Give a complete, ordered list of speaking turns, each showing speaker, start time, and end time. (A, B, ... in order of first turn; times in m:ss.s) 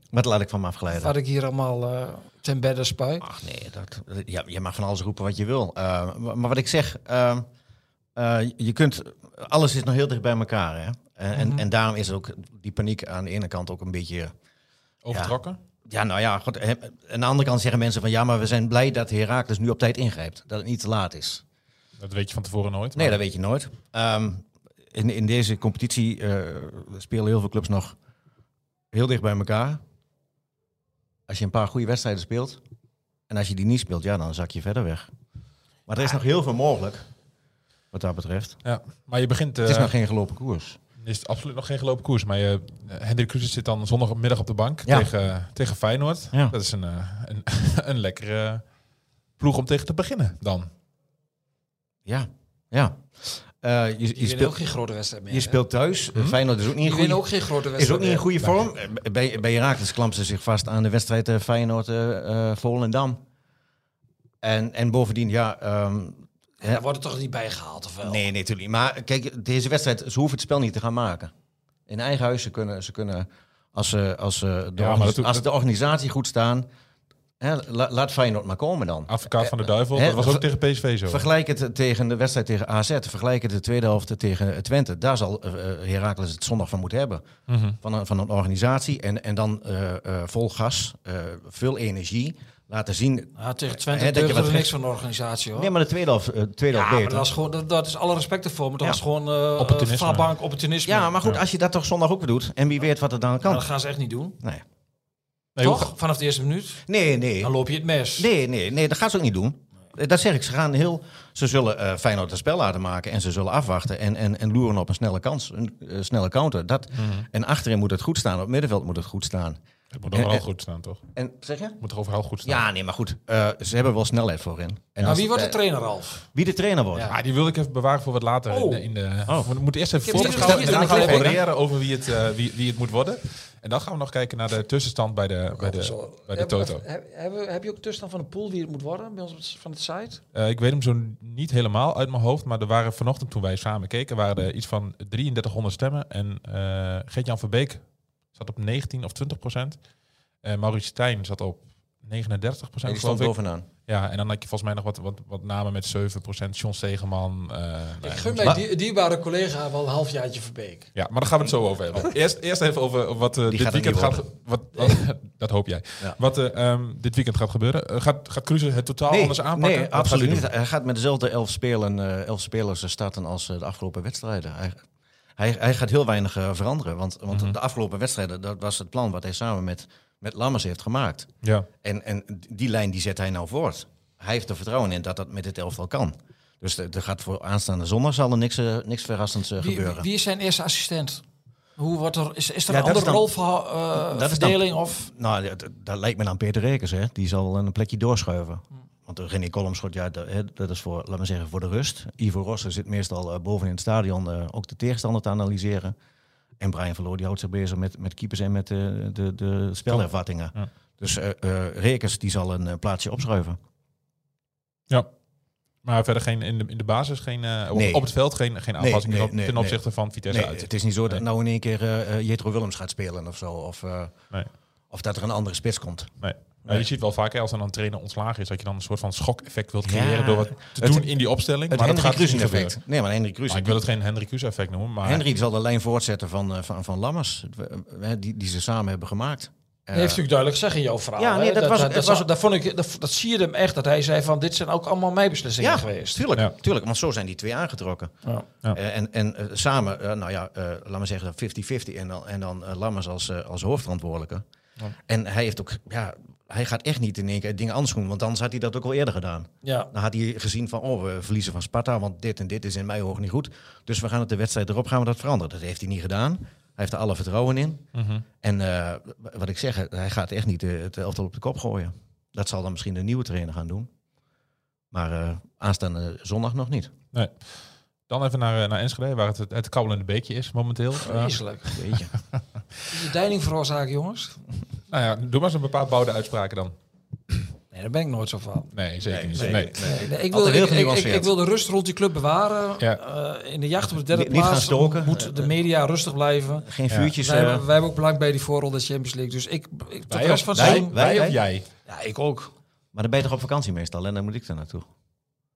0:00.1-0:01.1 A
0:00.9-0:03.3 B
0:03.2-0:07.5 A
0:08.2-0:14.3 A
0:11.3-0:11.6 B
0:15.0-0:15.6 C
0:15.9-0:21.4 A
0:22.0-0:23.2 C
0:23.0-0:28.0 A
0:28.9-0:29.8 A
0:31.3-0:32.6 A
0:33.3-0:35.1 A
0:35.9-0:37.1 A
0:37.9-0:38.6 A
0:38.6-0:39.9 C
0:39.6-0:40.8 A
0:41.0-0:48.6 C
0:49.4-0:50.7 C
0:52.1-0:54.6 A
0:54.2-0:55.6 B
0:55.3-1:03.2 A
0:56.8-0:58.3 B
1:04.4-1:06.8 A
1:06.6-1:08.3 B
1:08.0-1:11.3 A
1:11.9-1:16.7 A
1:14.8-1:15.4 C
1:17.4-1:20.5 A
1:19.1-1:21.3 C
1:21.1-1:27.3 A
1:27.5-1:27.8 C
1:27.8-1:34.7 A
1:33.4-1:35.7 B
1:35.6-1:37.3 A
1:36.7-1:41.1 B
1:39.6-1:40.3 C
1:40.8-1:43.6 A
1:43.4-1:44.4 B
1:45.6-1:45.9 C
1:45.6-1:46.8 B
1:46.9-1:47.5 A
1:47.4-1:48.3 B
1:48.2-1:59.6 A
1:57.0-1:57.3 C
1:59.9-2:01.0 C
2:00.1-2:00.4 A
2:01.2-2:01.8 A
2:01.8-2:02.6 C
2:02.4-2:05.6 A
2:05.0-2:06.3 B
2:06.3-2:07.2 A
2:07.1-2:16.8 C
2:08.5-2:08.9 B
2:09.3-2:11.5 A
2:10.0-2:11.4 B
2:15.6-2:20.2 B
2:20.3-2:29.8 C
2:30.4-2:38.6 C
2:32.8-2:33.7 A
2:38.0-2:40.9 B
2:41.0-2:50.5 C
2:43.5-2:44.2 A
2:49.1-2:54.8 A
2:55.4-3:01.3 A
3:01.4-3:01.7 C
3:01.8-3:10.1 A
3:09.6-3:11.2 B
3:11.8-3:15.1 B
3:12.7-3:13.3 A
3:14.0-3:25.9 A
3:26.6-3:33.6 A
3:35.8-3:41.2 C
3:37.7-3:38.1 A
3:38.8-3:44.2 A
3:44.9-3:46.9 A
3:46.2-3:52.8 C
3:49.8-3:51.1 A
3:51.7-3:53.8 A
3:53.5-3:55.3 C
3:55.0-4:00.2 A
3:59.9-4:06.2 B
4:01.2-4:02.3 A
4:05.6-4:08.1 A
4:08.7-4:14.4 A
4:15.1-4:27.8 A
4:19.6-4:19.9 B
4:27.9-4:28.2 C
4:28.4-4:33.9 A
4:34.9-4:36.9 A
4:38.1-4:41.8 C
4:41.0-4:41.8 B
4:41.7-4:42.1 A
4:42.9-4:44.4 B
4:44.9-4:46.7 C
4:47.7-4:48.7 B
4:48.7-4:49.9 C
4:49.1-4:51.3 A
4:49.4-5:02.5 B
4:54.1-4:55.5 A
4:56.6-4:57.7 A
5:00.1-5:01.7 C
5:00.5-5:01.4 A
5:02.9-5:04.9 A